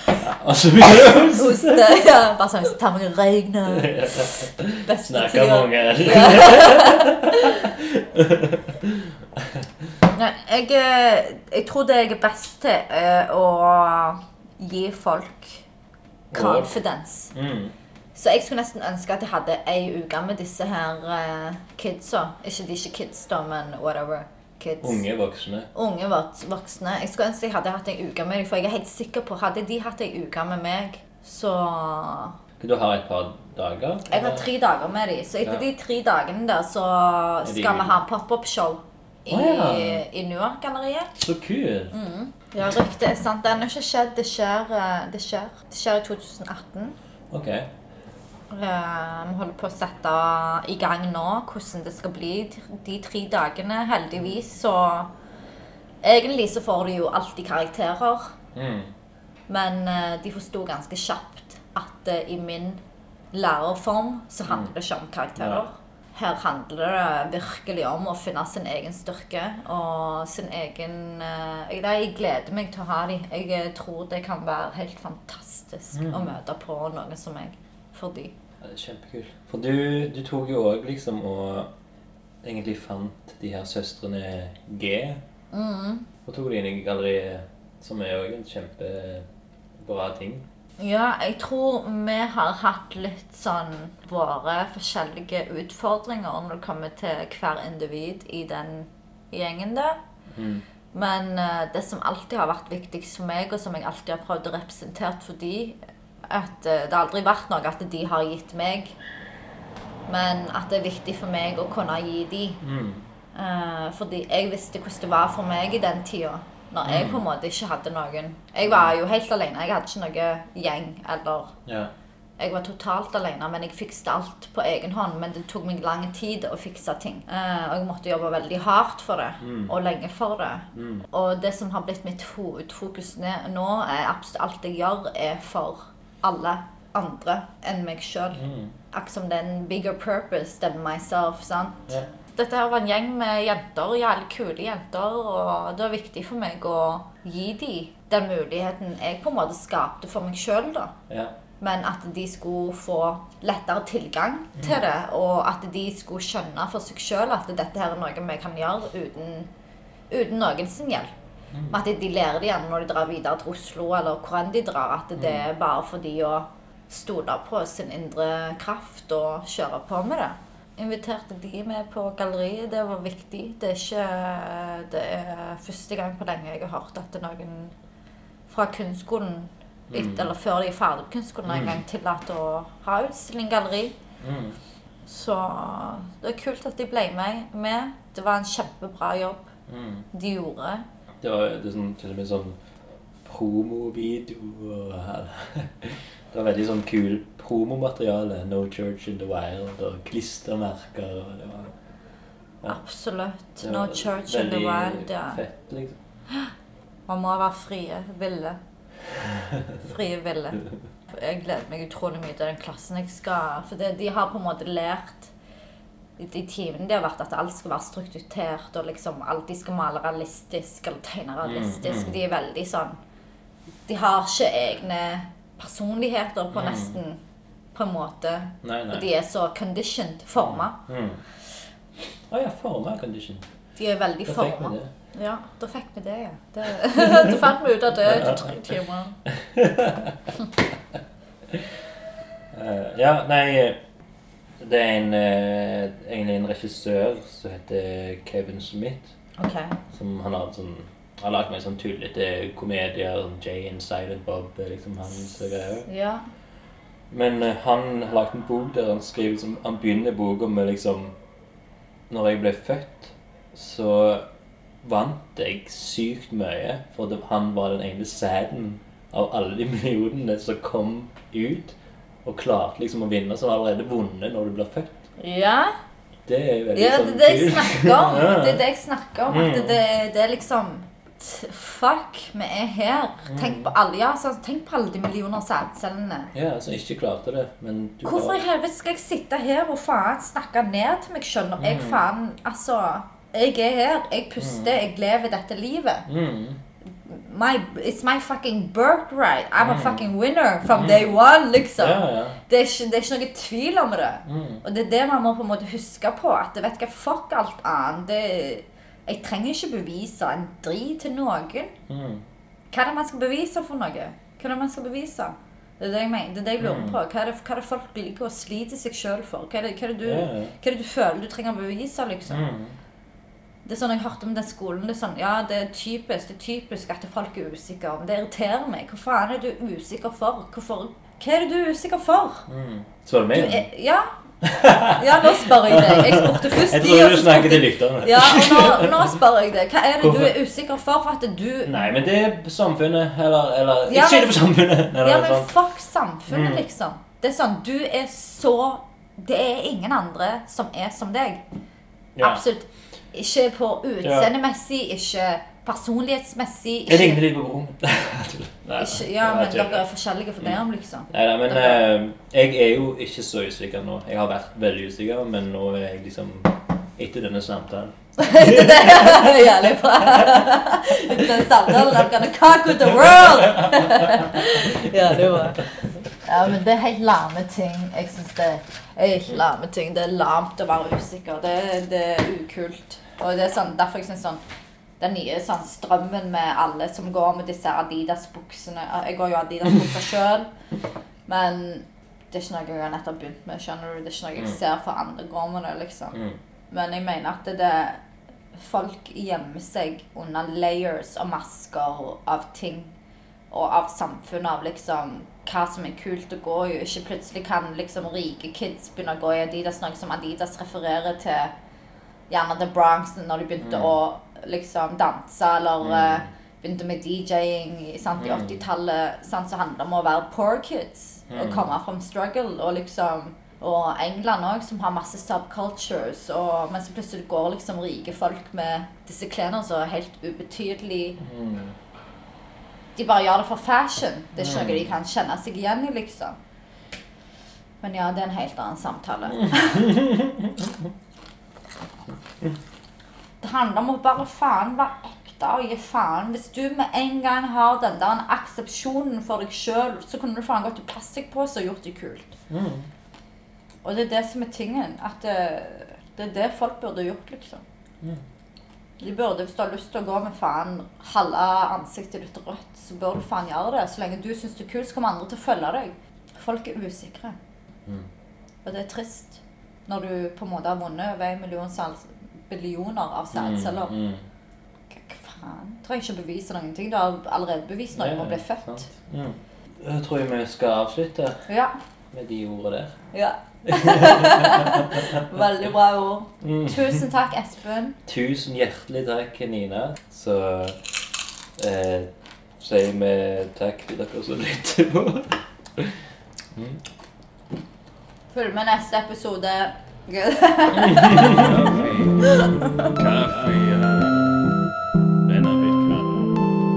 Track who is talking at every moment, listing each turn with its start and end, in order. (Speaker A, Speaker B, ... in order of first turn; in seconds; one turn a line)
Speaker A: 0.1-1.8
Speaker B: 1.3-7.7
Speaker A: 3.7-9.6
Speaker B: 10.1-15.6
Speaker A: 16.3-16.8
Speaker B: 16.3-17.3
Speaker A: 17.3-17.7
Speaker B: 18.1-25.0
Speaker A: 24.8-25.7
Speaker B: 25.7-32.4
Speaker A: 32.6-34.5
Speaker B: 34.1-41.1
Speaker A: 37.4-38.0
Speaker A: 39.3-40.0
Speaker A: 41.1-42.0
Speaker B: 41.9-46.9
Speaker A: 47.3-47.7
Speaker B: 48.5-55.1
Speaker B: 56.0-58.3
Speaker A: 58.5-58.9
Speaker B: 59.5-62.8
Speaker B: 63.3-78.3
Speaker A: 65.4-65.6
Speaker A: 75.9-76.3
Speaker A: 78.6-81.7
Speaker A: 82.4-85.2
Speaker B: 85.5-86.1
Speaker A: 86.2-89.2
Speaker A: 89.8-90.4
Speaker B: 90.8-100.0
Speaker A: 100.3-100.6
Speaker B: 100.9-105.8
Speaker B: 106.3-108.9
Speaker B: 110.1-112.6
Speaker A: 112.6-113.1
Speaker B: 113.3-121.5
Speaker A: 116.8-117.2
Speaker A: 118.6-118.9
Speaker A: 121.7-121.9
Speaker B: 122.4-150.9
Speaker A: 129.4-129.7
Speaker A: 130.7-131.1
Speaker A: 138.3-138.7
Speaker A: 151.1-151.3
Speaker B: 151.6-159.5
Speaker B: 160.1-161.1
Speaker B: 161.7-177.7
Speaker A: 165.2-165.4
Speaker B: 178.5-183.9
Speaker A: 179.9-180.3
Speaker A: 181.5-181.8
Speaker A: 184.2-184.6
Speaker B: 185.1-189.5
Speaker A: 189.7-190.1
Speaker B: 190.1-190.8
Speaker A: 191.2-192.6
Speaker A: 193.2-201.7
Speaker B: 202.7-205.4
Speaker A: 203.6-206.0
Speaker B: 207.1-208.6
Speaker A: 209.4-209.7
Speaker B: 209.8-215.3
Speaker B: 216.2-223.0
Speaker A: 221.4-222.2
Speaker B: 223.8-227.2
Speaker A: 226.5-227.0
Speaker B: 227.7-230.8
Speaker A: 228.6-229.1
Speaker A: 230.4-231.2
Speaker A: 232.3-233.4
Speaker B: 233.8-239.2
Speaker A: 234.2-234.9
Speaker A: 238.0-238.5
Speaker A: 239.3-240.3
Speaker A: 242.5-243.8
Speaker A: 244.6-249.1
Speaker B: 249.3-249.8
Speaker A: 249.9-255.9
Speaker B: 255.8-256.2
Speaker A: 257.1-261.1
Speaker A: 262.1-264.2
Speaker A: 264.8-275.0
Speaker B: 275.2-275.7
Speaker A: 276.3-278.6
Speaker B: 276.7-286.3
Speaker A: 279.3-279.8
Speaker A: 283.3-283.7
Speaker A: 286.3-288.4
Speaker B: 288.0-296.1
Speaker A: 291.6-292.0
Speaker A: 294.4-294.7
Speaker A: 296.1-296.6
Speaker B: 297.0-311.7
Speaker A: 299.6-300.0
Speaker A: 300.7-301.1
Speaker A: 301.8-302.4
Speaker A: 304.2-304.6
Speaker A: 311.9-312.2
Speaker B: 312.7-322.4
Speaker A: 316.6-317.0
Speaker A: 320.0-320.5
Speaker A: 322.3-322.8
Speaker B: 323.6-332.4
Speaker A: 332.5-333.7
Speaker B: 333.3-334.1
Speaker A: 334.4-339.1
Speaker B: 334.9-341.9
Speaker A: 340.0-340.3
Speaker A: 341.6-345.6
Speaker B: 343.9-344.4
Speaker B: 345.0-351.4
Speaker A: 346.3-346.6
Speaker A: 352.1-352.4
Speaker B: 352.2-357.2
Speaker A: 354.0-354.3
Speaker A: 356.9-359.8
Speaker B: 358.8-361.8
Speaker A: 361.1-369.3
Speaker B: 368.2-375.7
Speaker A: 373.6-374.1
Speaker B: 376.2-384.4
Speaker B: 385.0-390.5
Speaker B: 391.3-396.2
Speaker B: 396.7-398.0
Speaker B: 398.5-402.9
Speaker B: 403.5-411.5
Speaker B: 412.3-431.2
Speaker A: 413.6-413.9
Speaker A: 415.8-416.3
Speaker A: 418.2-418.6
Speaker A: 421.3-421.7
Speaker A: 431.2-431.7
Speaker B: 432.9-436.4
Speaker A: 434.4-434.9
Speaker B: 437.8-439.9
Speaker A: 439.5-440.7
Speaker B: 443.4-452.3
Speaker A: 452.5-452.9
Speaker B: 453.8-457.6
Speaker B: 459.0-467.4
Speaker B: 468.6-473.9
Speaker A: 473.3-474.2
Speaker B: 474.9-478.9
Speaker A: 477.9-481.4
Speaker B: 481.5-481.8
Speaker A: 482.1-482.9
Speaker B: 483.1-488.0
Speaker A: 483.7-485.2
Speaker A: 486.4-487.0
Speaker A: 488.1-490.8
Speaker A: 491.6-496.0
Speaker A: 496.5-496.8
Speaker B: 498.3-502.9
Speaker A: 500.9-504.5
Speaker A: 505.2-506.5